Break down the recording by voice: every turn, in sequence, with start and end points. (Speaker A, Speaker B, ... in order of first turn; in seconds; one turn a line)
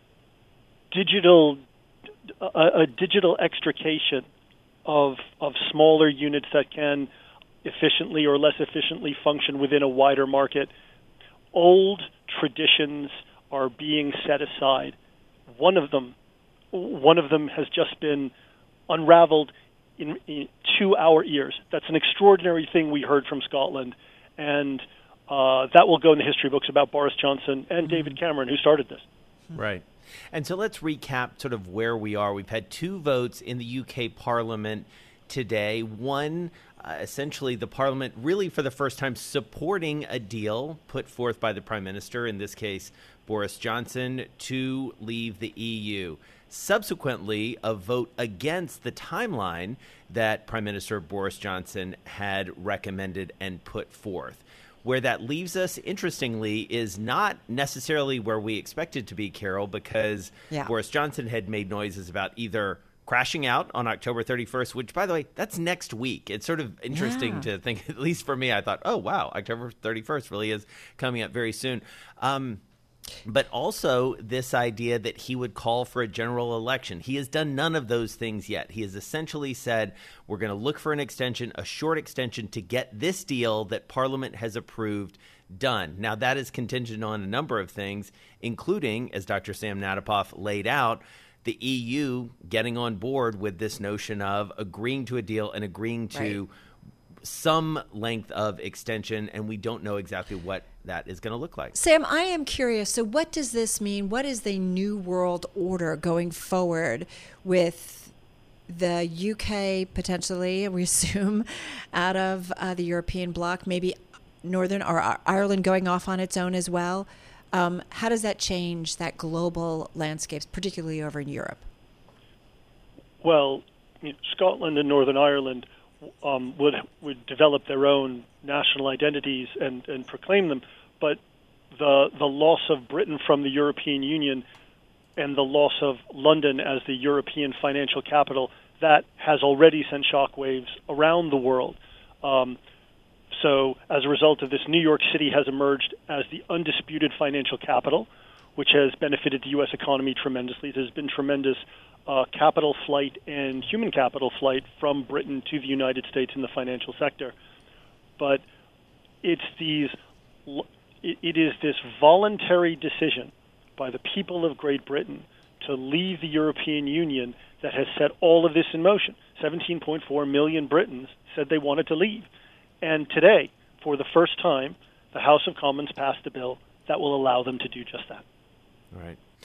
Speaker A: 0.9-1.6
Speaker A: 2.4-4.2
Speaker A: 4.8-7.1
Speaker A: 7.6-10.7
Speaker A: 11.5-14.9
Speaker A: 15.5-16.1
Speaker A: 16.7-18.3
Speaker A: 18.9-29.0
Speaker B: 29.5-72.6
Speaker C: 66.9-67.5
Speaker B: 73.2-96.5
Speaker C: 96.1-96.4
Speaker B: 97.2-101.8
Speaker C: 101.7-108.1
Speaker C: 108.7-121.6
Speaker A: 123.2-125.7
Speaker A: 126.2-131.2
Speaker A: 131.7-134.4
Speaker A: 135.2-142.6
Speaker A: 143.3-157.3
Speaker A: 158.2-158.4
Speaker A: 159.2-159.9
Speaker A: 160.5-172.3
Speaker A: 172.8-178.2
Speaker B: 178.9-179.2